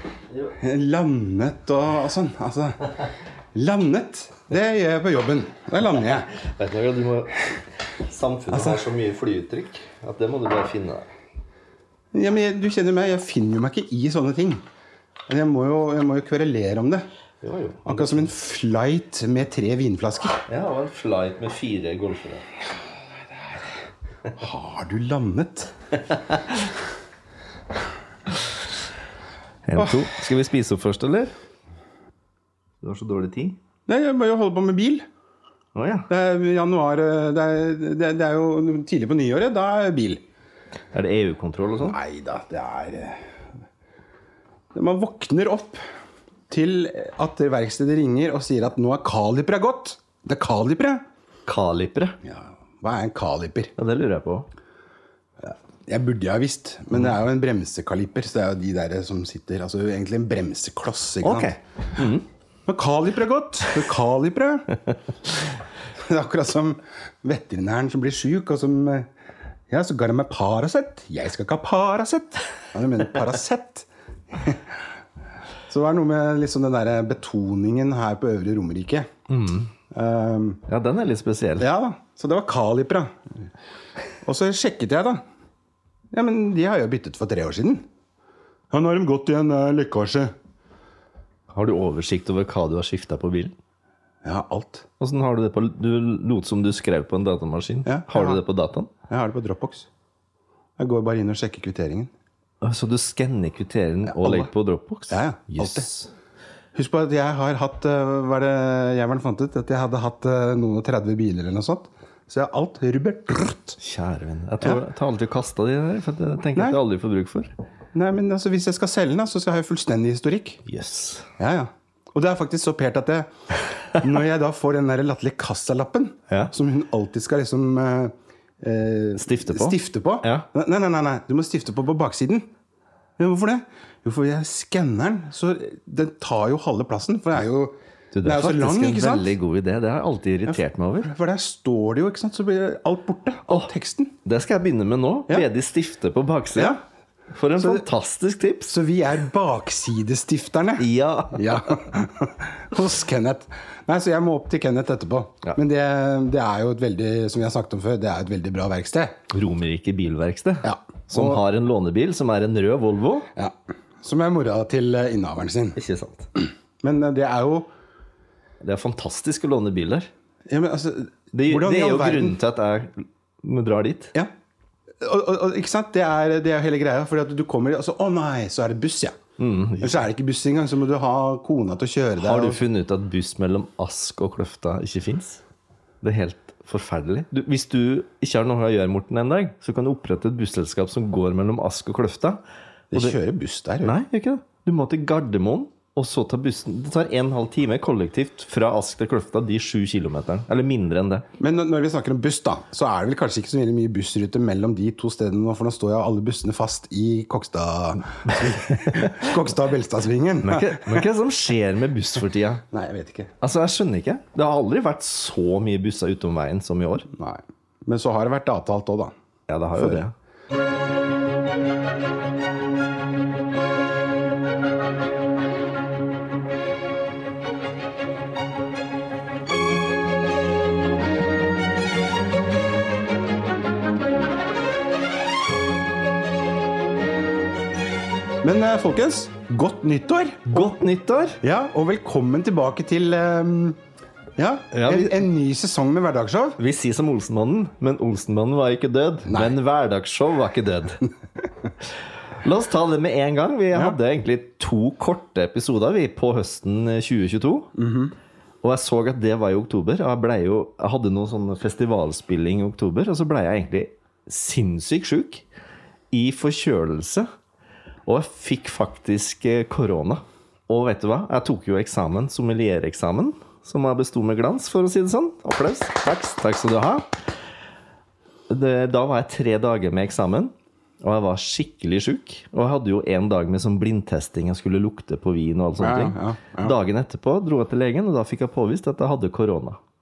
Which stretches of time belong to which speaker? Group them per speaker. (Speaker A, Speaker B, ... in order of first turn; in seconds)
Speaker A: 0.6-2.9, 3.5-6.3, 8.5-8.8, 12.1-14.6, 15.3-17.0, 17.9-20.4, 24.3-25.7, 29.8-30.0, 33.9-35.0, 36.1-40.2, 41.8-43.2, 44.7-45.8, 46.5-51.0, 52.2-53.7, 55.4-61.5, 62.7-64.7, 66.0-69.1, 69.7-74.6, 75.7-79.1, 79.9-80.6, 81.6-83.2, 84.2-85.2, 86.1-87.8, 88.7-90.3, 94.2-94.8, 97.8-98.4, 99.1-99.9, 100.8-102.1, 104.0-104.5, 105.1-105.9, 106.7-113.8, 117.9-120.6, 121.4-123.3, 123.9-132.5, 133.2-139.3, 141.0-144.1, 146.5-146.8, 147.6-147.8, 148.7-159.2, 160.6-161.4, 163.3-165.8, 166.8-167.7, 170.5-172.4, 175.0-179.2, 179.8-182.6, 192.9-194.0, 201.4-211.0, 212.7-213.3, 217.1-219.1, 219.7-220.1, 238.4-240.7, 241.4-243.8, 244.4-246.6, 249.3-249.5, 257.8-258.1, 285.8-286.7
Speaker B: 6.3-7.3, 8.0-11.1, 17.4-18.3, 20.5-22.4, 29.7-31.3, 32.8-33.6, 35.7-36.1, 40.9-42.0, 51.5-52.2, 53.8-54.5, 61.2-62.2, 79.3-79.7, 80.7-81.6, 91.5-93.5, 95.0-98.9, 102.6-106.1, 113.8-117.5, 120.7-121.3, 129.2-130.4, 138.1-141.1, 144.2-146.8, 147.3-148.7, 150.8-151.7, 159.3-163.3, 165.8-166.3, 168.6-170.1, 171.3-174.1, 179.4-180.0, 182.2-185.4, 186.0-192.4, 193.8-201.2, 208.3-209.3, 210.4-212.6, 213.4-217.1, 219.5-220.1, 240.5-241.4, 244.7-245.2, 246.6-251.0, 252.4-257.7, 258.6-265.4, 266.1-267.3, 268.1-277.1, 278.5-289.8